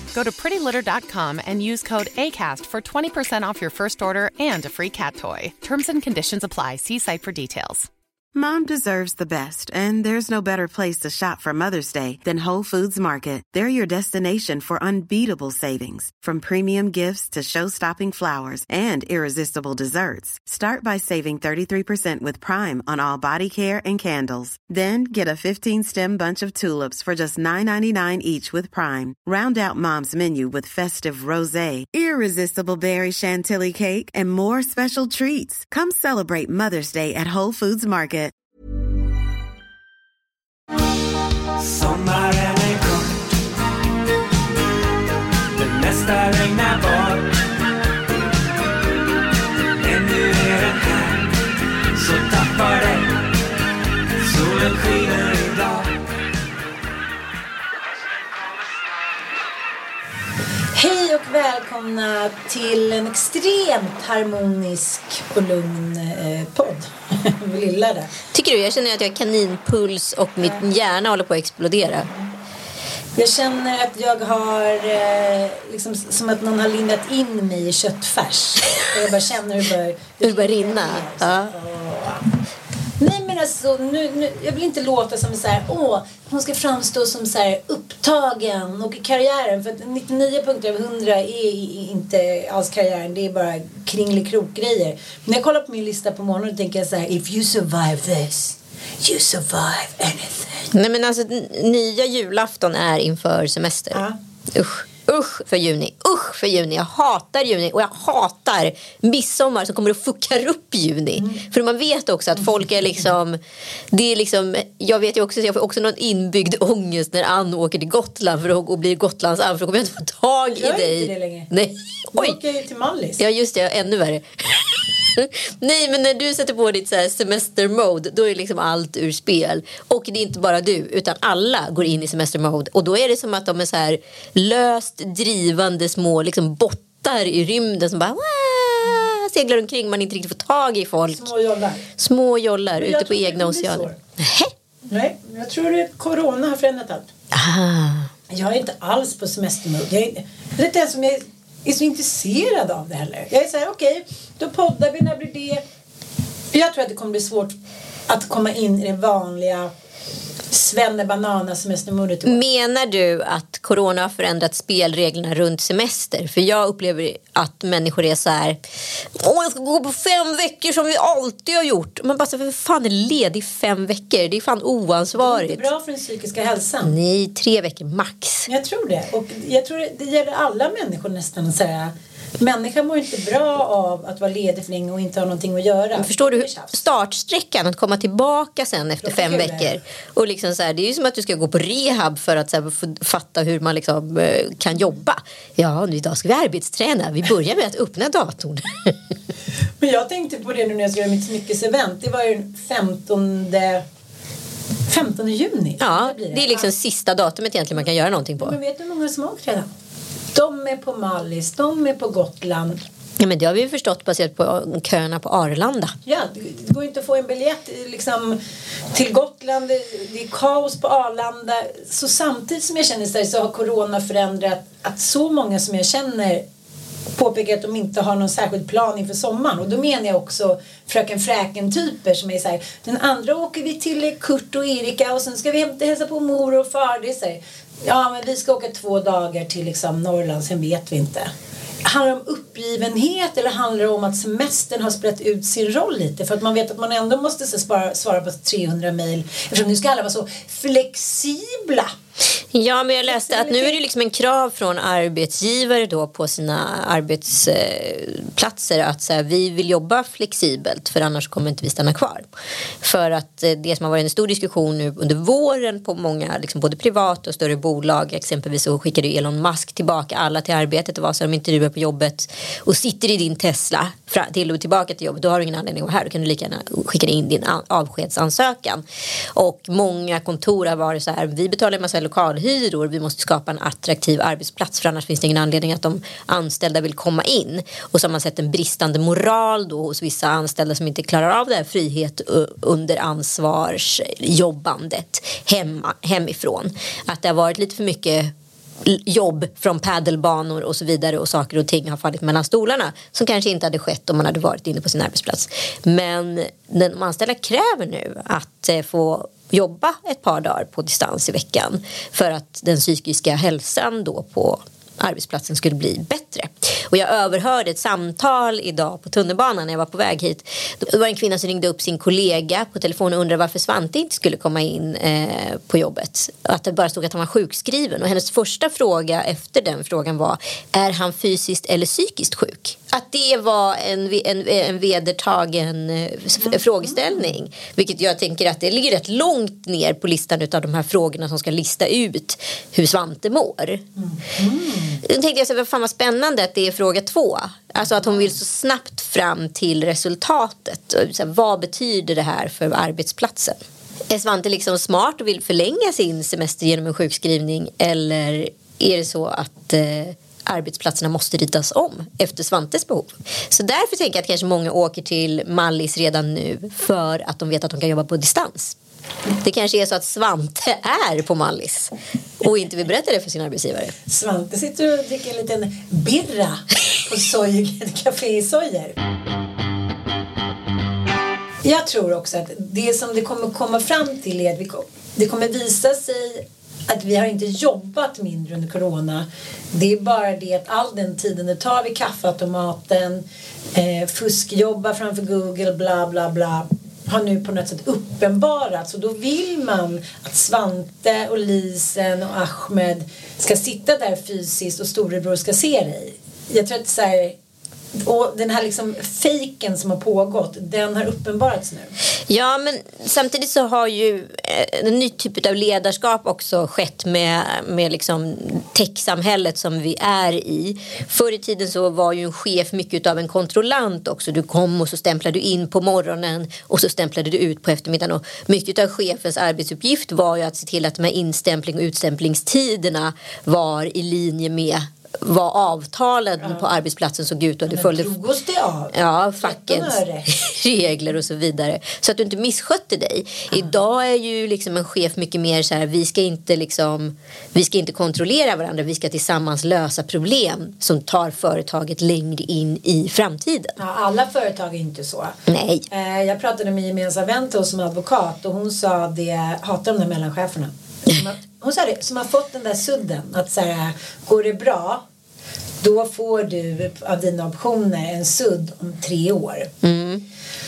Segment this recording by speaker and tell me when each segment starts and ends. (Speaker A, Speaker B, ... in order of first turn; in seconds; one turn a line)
Speaker A: 0.1-7.9
Speaker B: 8.3-38.3
Speaker C: 41.6-43.3
Speaker C: 45.6-47.4
Speaker C: 49.8-51.4
Speaker C: 52.0-53.3
Speaker C: 54.2-56.0
Speaker D: 60.7-68.1
Speaker E: 68.3-72.1
Speaker D: 73.2-82.3
Speaker E: 80.2-81.5
Speaker D: 83.0-100.7
Speaker E: 100.7-113.4
Speaker D: 111.2-111.4
Speaker E: 113.9-122.4
Speaker D: 120.5-121.5
Speaker D: 122.1-123.2
Speaker E: 123.2-141.3
Speaker D: 141.1-141.8
Speaker E: 142.0-144.5
Speaker D: 142.8-144.0
Speaker D: 144.9-147.1
Speaker E: 147.3-148.1
Speaker D: 148.3-155.6
Speaker D: 156.5-157.6
Speaker D: 158.1-159.7
Speaker D: 160.5-162.4
Speaker E: 162.2-168.6
Speaker E: 169.2-175.7
Speaker D: 175.2-177.0
Speaker E: 176.8-178.5
Speaker D: 178.5-186.8
Speaker E: 185.9-199.1
Speaker D: 189.0-189.8
Speaker D: 199.8-203.8
Speaker D: 204.9-206.7
Speaker E: 205.8-208.6
Speaker D: 208.4-209.7
Speaker D: 210.3-212.8
Speaker E: 213.2-216.0
Speaker D: 216.1-218.4
Speaker D: 218.9-226.4
Speaker D: 227.2-241.3
Speaker D: 241.8-251.9
Speaker E: 252.5-262.3
Speaker D: 253.1-253.8
Speaker E: 262.8-298.3
Speaker E: 298.8-343.8
Speaker D: 336.4-337.2
Speaker D: 344.0-345.0
Speaker E: 345.0-368.8
Speaker E: 369.4-373.9
Speaker D: 374.1-378.9
Speaker D: 381.6-407.4
Speaker D: 408.0-411.9
Speaker E: 412.3-438.1
Speaker D: 437.7-440.3
Speaker E: 438.9-453.8
Speaker D: 453.8-455.4
Speaker E: 455.5-455.9
Speaker D: 455.9-465.0
Speaker D: 465.8-469.7
Speaker E: 469.8-470.2